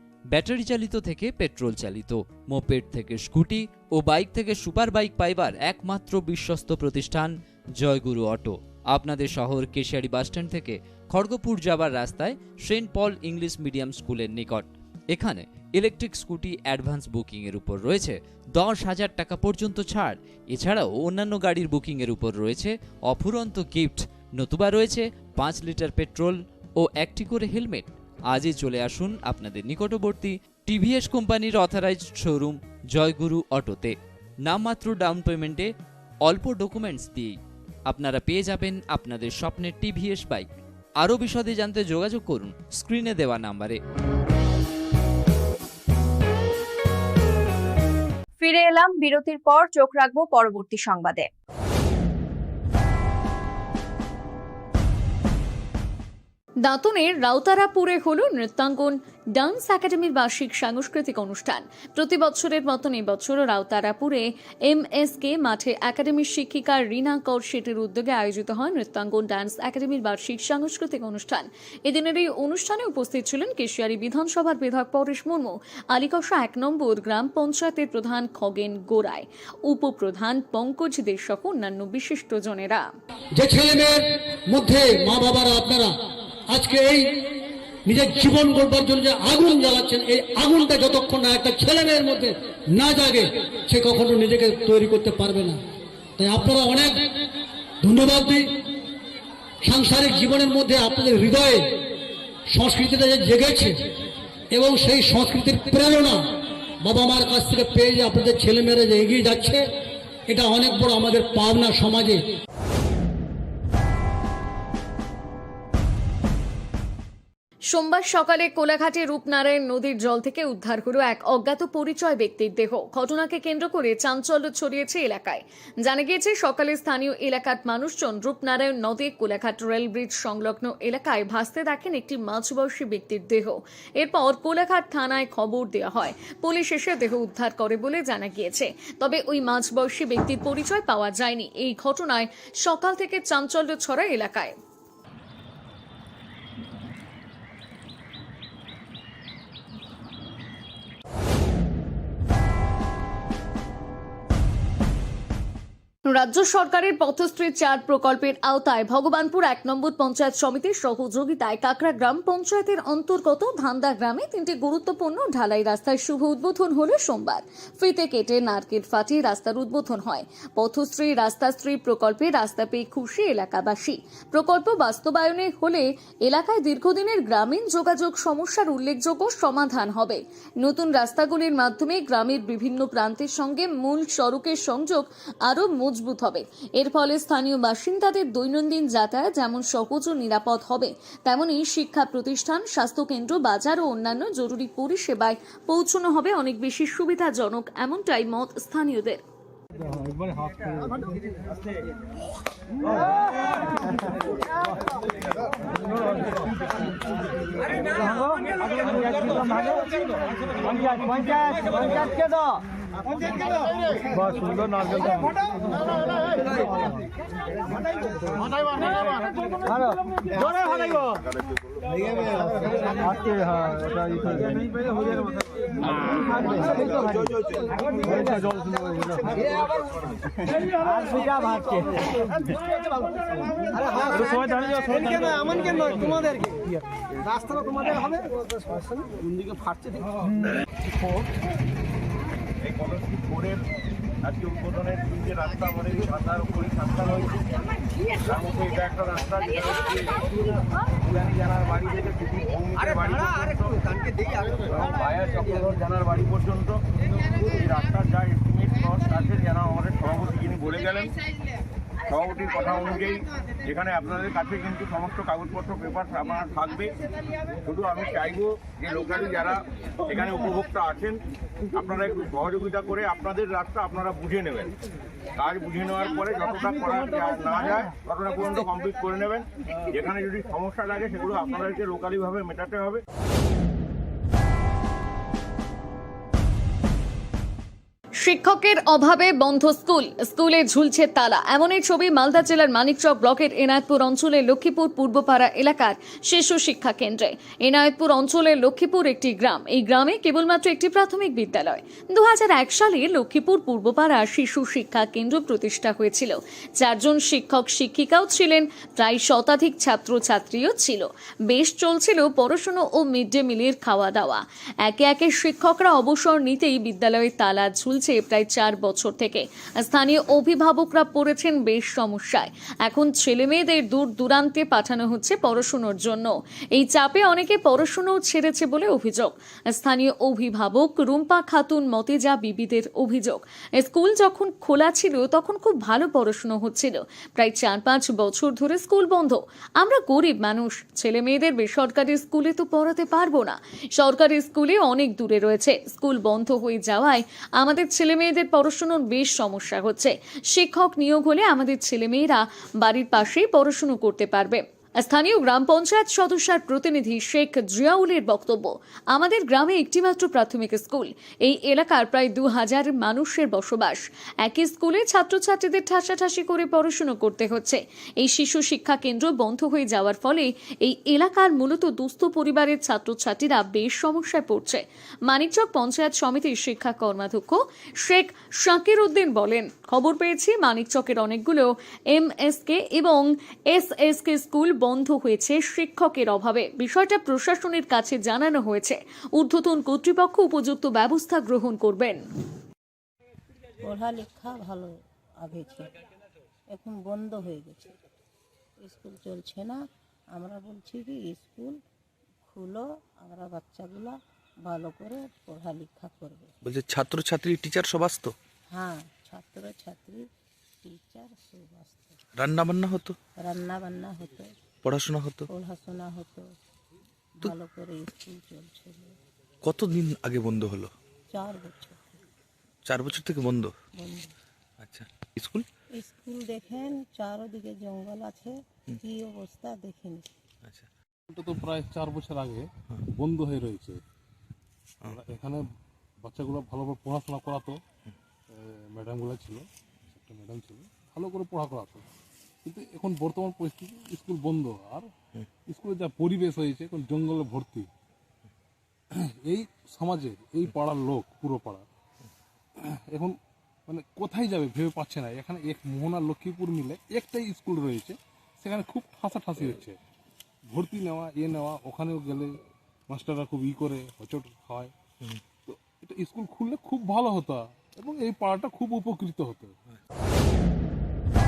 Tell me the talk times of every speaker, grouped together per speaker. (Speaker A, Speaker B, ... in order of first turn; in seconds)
Speaker A: 0.3-35.7, 36.2-37.4, 37.9-40.5, 41.0-43.8
Speaker B: 48.4-51.3
Speaker C: 56.6-82.8, 117.7-144.5, 156.1-199.2, 288.2-392.2
Speaker D: 83.4-85.9, 86.5-87.0, 87.9-95.6, 96.2-96.9, 97.8-98.4, 99.6-101.6, 102.5-103.7, 104.5-106.2, 106.8-109.6, 110.3-112.2
Speaker E: 220.5-222.4, 226.8-227.6, 242.6-243.6, 244.2-247.4, 248.2-250.5, 251.0-253.8, 254.5-256.8, 257.3-261.1, 262.1-266.9, 267.6-271.2, 271.7-274.7, 275.4-283.0
Speaker F: 393.8-395.9, 396.7-398.0, 398.8-399.8, 400.3-401.8, 402.5-406.5, 408.7-410.3, 410.8-412.2, 413.4-414.5, 415.5-416.5, 417.4-419.1, 421.3-422.1, 423.9-424.3, 426.0-430.3
Speaker G: 406.6-408.3, 412.4-413.1, 414.8-415.5, 419.6-420.9, 422.9-423.7, 424.8-425.6
Speaker H: 431.3-432.7, 433.2-434.0, 435.1-435.6, 436.2-437.8, 438.5-442.0, 442.6-445.1, 445.7-447.9, 449.4-451.8, 453.1-453.4, 453.9-460.0, 460.7-462.5, 463.1-464.9, 465.6-469.7